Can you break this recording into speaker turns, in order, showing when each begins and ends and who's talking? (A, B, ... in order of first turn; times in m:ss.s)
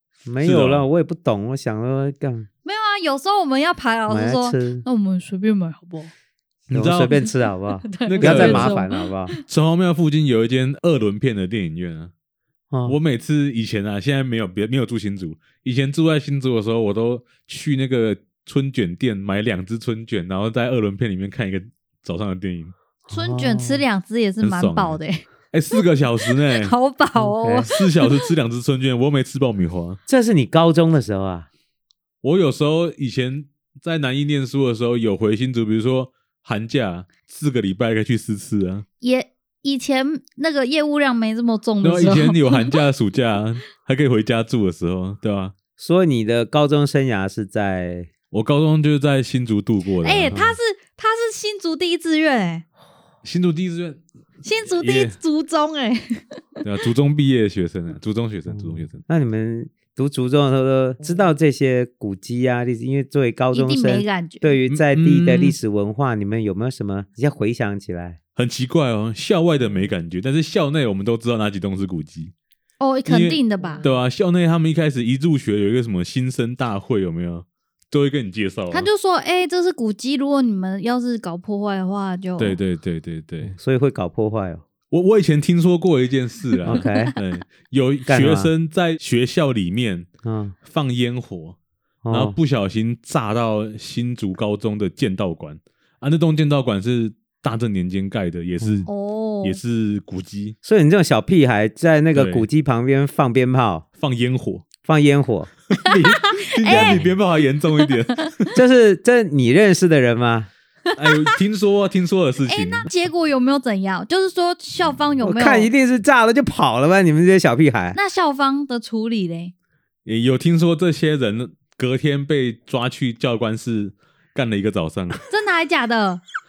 0:00.2-0:02.5 A
0:00.4-0:00.8 B
0:02.6-0:06.1 C
0:04.1-0:04.8 A
0:06.7-0:07.2 B
0:06.7-0:09.3 A
0:07.8-0:09.4 C
0:08.0-0:08.8 B
0:09.4-0:12.1 B
0:12.7-0:13.0 A
0:12.8-0:22.7 B
0:23.1-0:23.8 A
0:23.1-0:28.3 C
0:24.4-0:25.0 B
0:25.5-0:26.7 B
0:27.2-0:27.7 A
0:27.7-0:30.0 B
0:30.1-0:31.5 A
0:32.2-0:38.8 B
0:39.0-0:42.8 C
0:41.8-0:45.5 B
0:45.8-0:48.1 A
0:48.3-0:50.5 B
0:50.0-0:52.6 C
0:53.2-0:54.0 B
0:54.4-0:56.6 C
0:54.6-0:55.2 B
0:56.6-0:59.0 B
0:59.0-1:08.2 A
1:03.5-1:04.5 C
1:04.7-1:05.5 B
1:08.4-1:12.3 B
1:12.8-1:13.8 C
1:13.0-1:18.9 B
1:18.7-1:22.6 C
1:22.4-1:23.5 B
1:23.4-1:24.6 A
1:24.9-1:30.1 B
1:26.6-1:27.1 A
1:26.7-1:27.2 C
1:28.1-1:28.5 A
1:30.2-1:30.5 A
1:30.6-1:31.6 B
1:32.0-1:32.4 A
1:32.1-1:38.9 B
1:38.9-1:39.6 C
1:39.4-1:40.6 B
1:40.6-1:43.8 A
1:42.1-1:42.4 B
1:44.0-1:44.6 B
1:44.8-1:45.5 A
1:45.7-1:48.5 B
1:45.8-1:47.0 C
1:46.7-1:47.2 A
1:48.5-1:50.5 A
1:50.9-1:51.3 C
1:51.0-1:52.9 B
1:52.4-1:55.7 C
1:55.2-1:58.0 A
1:57.9-1:59.5 C
2:00.0-2:05.2 B
2:05.3-2:06.2 C